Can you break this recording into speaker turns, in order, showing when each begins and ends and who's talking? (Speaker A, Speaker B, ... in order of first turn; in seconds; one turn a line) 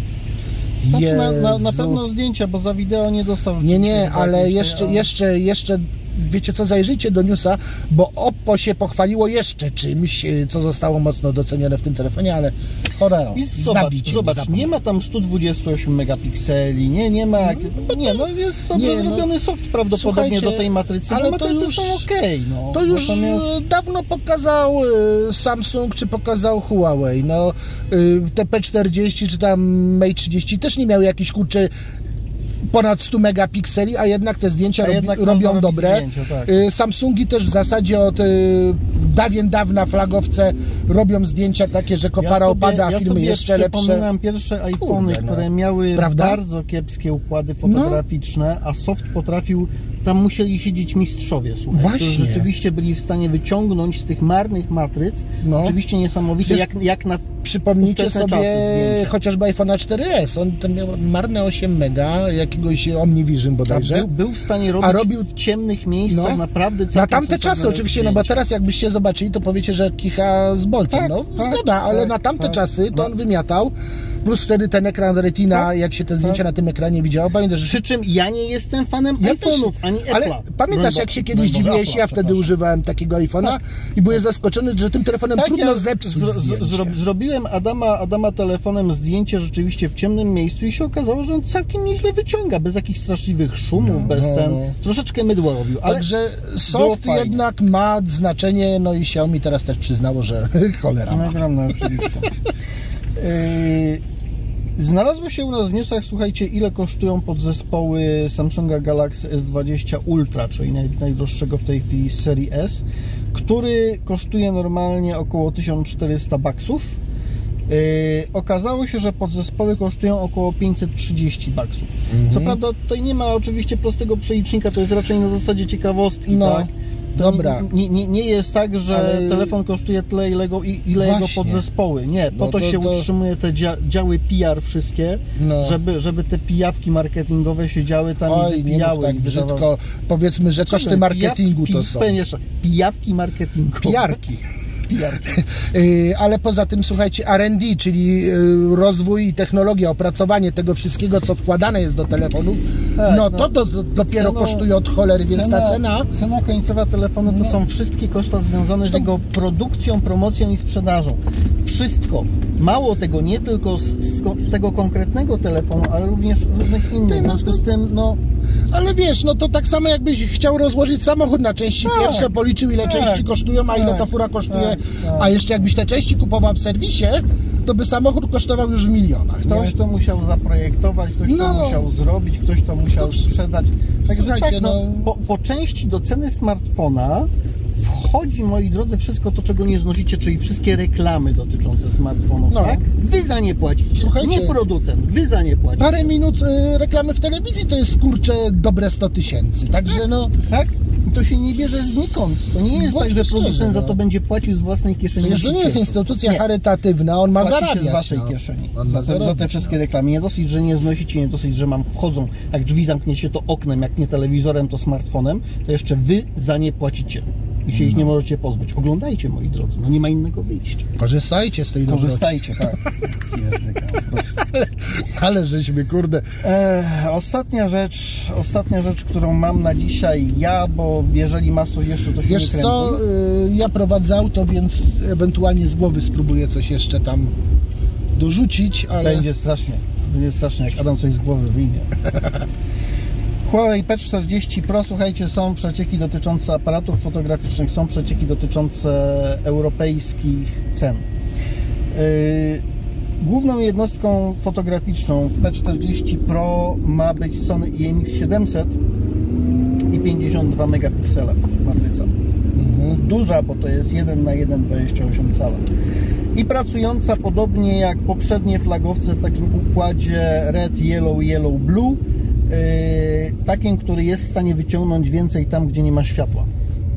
Speaker A: 0.8-2.0
Speaker B: 0.8-5.1
Speaker A: 3.6-14.7
Speaker B: 13.3-23.6
Speaker A: 17.4-19.3
Speaker A: 19.9-22.1
Speaker A: 22.7-31.7
Speaker A: 32.6-44.0
Speaker B: 34.8-36.5
Speaker B: 42.2-59.1
Speaker A: 44.8-46.4
Speaker A: 47.6-48.0
Speaker A: 51.7-52.5
Speaker A: 55.4-55.8
Speaker A: 57.4-64.1
Speaker B: 63.7-68.4
Speaker A: 64.8-65.3
Speaker A: 66.1-66.4
Speaker A: 66.9-73.7
Speaker B: 70.9-73.1
Speaker A: 74.2-77.8
Speaker B: 77.6-82.5
Speaker A: 79.2-86.9
Speaker B: 85.3-96.1
Speaker A: 93.8-94.7
Speaker A: 95.8-101.4
Speaker B: 96.7-97.4
Speaker B: 101.1-102.3
Speaker B: 103.2-104.0
Speaker B: 104.8-117.0
Speaker B: 117.7-139.7
Speaker A: 122.1-122.6
Speaker A: 126.3-127.7
Speaker A: 128.9-129.5
Speaker A: 131.0-131.6
Speaker A: 132.3-133.1
Speaker A: 135.3-135.8
Speaker A: 138.3-142.2
Speaker B: 140.6-144.2
Speaker A: 143.8-144.4
Speaker B: 144.9-145.2
Speaker A: 145.2-156.1
Speaker B: 153.0-153.5
Speaker B: 154.0-154.7
Speaker B: 155.2-168.2
Speaker A: 157.3-157.5
Speaker A: 167.1-167.6
Speaker A: 168.7-179.7
Speaker B: 171.8-175.4
Speaker B: 179.4-196.1
Speaker A: 181.2-181.9
Speaker A: 183.0-183.2
Speaker A: 184.1-185.1
Speaker A: 192.5-192.8
Speaker A: 194.0-194.6
Speaker A: 195.8-200.3
Speaker B: 199.9-206.4
Speaker A: 202.7-204.0
Speaker A: 205.2-209.7
Speaker B: 207.4-220.9
Speaker A: 217.7-218.1
Speaker A: 221.0-222.8
Speaker B: 221.8-224.5
Speaker A: 224.4-226.2
Speaker B: 226.4-233.0
Speaker A: 232.2-237.3
Speaker A: 238.1-239.2
Speaker B: 239.0-241.9
Speaker A: 242.1-242.4
Speaker B: 243.4-251.1
Speaker B: 251.9-252.6
Speaker B: 253.2-258.8
Speaker B: 259.9-262.1
Speaker A: 262.5-263.0
Speaker B: 262.9-265.6
Speaker B: 266.3-276.5